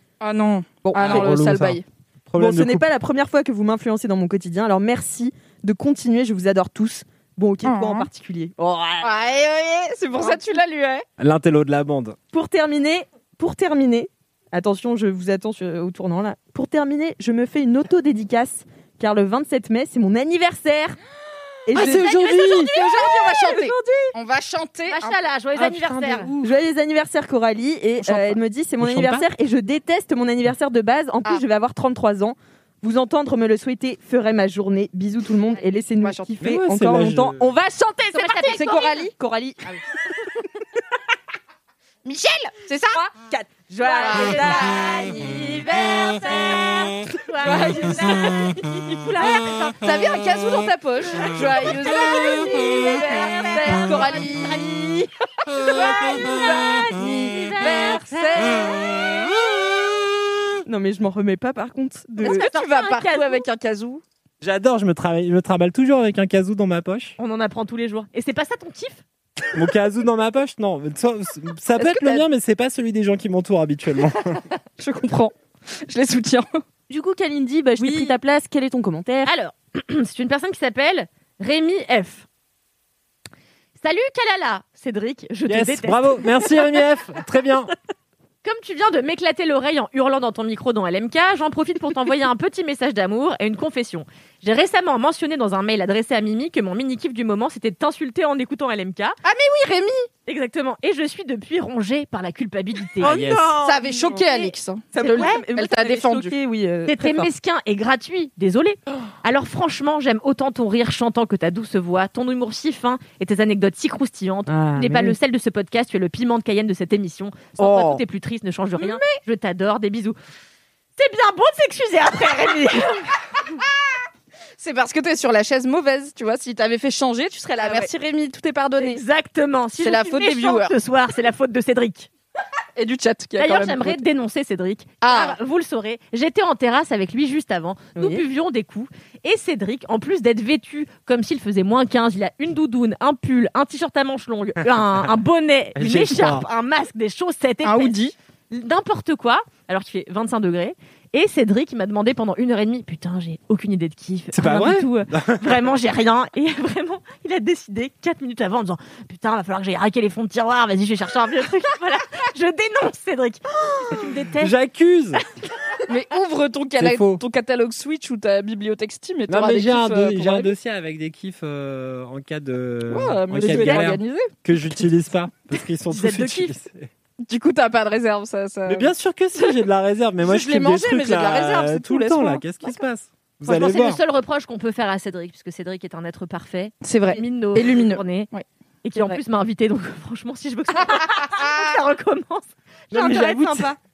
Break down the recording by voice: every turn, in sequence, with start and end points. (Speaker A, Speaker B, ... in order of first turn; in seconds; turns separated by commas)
Speaker A: 0.2-1.8, Speaker B: 0.8-1.4, Speaker C: 0.9-2.9, Speaker B: 2.4-9.1, Speaker A: 7.6-8.1, Speaker A: 9.0-11.0, Speaker C: 11.2-12.2, Speaker B: 12.3-21.0, Speaker B: 21.6-24.1, Speaker C: 21.7-22.7, Speaker A: 21.7-26.5, Speaker D: 22.9-23.1, Speaker D: 24.9-26.3, Speaker B: 26.4-39.7, Speaker A: 28.0-28.4, Speaker C: 28.8-29.3, Speaker A: 36.0-36.4, Speaker C: 36.4-37.5, Speaker D: 38.1-39.0, Speaker A: 38.1-39.1, Speaker A: 42.0-43.0, Speaker B: 42.9-45.4, Speaker D: 43.8-49.8, Speaker A: 43.9-45.3, Speaker A: 47.4-48.2, Speaker B: 47.4-47.9, Speaker A: 49.8-55.0, Speaker D: 51.2-54.8, Speaker A: 55.6-59.1, Speaker D: 55.7-58.6, Speaker B: 60.6-62.5, Speaker A: 62.2-64.0, Speaker D: 62.2-63.4, Speaker C: 64.4-67.2, Speaker D: 67.2-69.0, Speaker C: 69.5-74.4, Speaker A: 71.8-72.2, Speaker A: 74.8-75.3, Speaker A: 75.9-76.5, Speaker B: 76.9-79.3, Speaker D: 77.8-78.1, Speaker D: 79.2-82.2, Speaker D: 83.8-86.2, Speaker C: 85.5-87.7, Speaker D: 88.4-99.2, Speaker A: 99.2-100.1, Speaker D: 100.3-103.5, Speaker C: 103.0-103.7, Speaker B: 103.0-107.3, Speaker A: 103.6-106.3, Speaker D: 105.0-105.4, Speaker D: 106.9-120.2, Speaker B: 114.5-115.2, Speaker B: 117.6-118.0, Speaker A: 118.8-119.2, Speaker D: 121.0-123.1, Speaker A: 124.6-129.0, Speaker D: 128.8-132.1, Speaker A: 129.8-130.7, Speaker A: 132.8-134.0, Speaker D: 133.4-147.9, Speaker A: 135.0-135.4, Speaker B: 137.9-138.2, Speaker C: 145.8-146.4, Speaker A: 147.6-148.1, Speaker D: 148.5-164.5, Speaker C: 154.3-155.6, Speaker C: 164.4-165.2, Speaker A: 165.9-170.5, Speaker C: 166.8-167.2, Speaker C: 169.3-176.9, Speaker A: 172.9-174.3, Speaker D: 173.4-173.9, Speaker D: 175.9-176.5, Speaker A: 177.2-179.6, Speaker C: 178.7-184.0, Speaker A: 180.2-182.8, Speaker D: 183.4-188.3, Speaker A: 186.8-188.4, Speaker D: 188.8-193.7, Speaker A: 190.8-191.7, Speaker B: 192.9-193.8, Speaker C: 192.9-193.6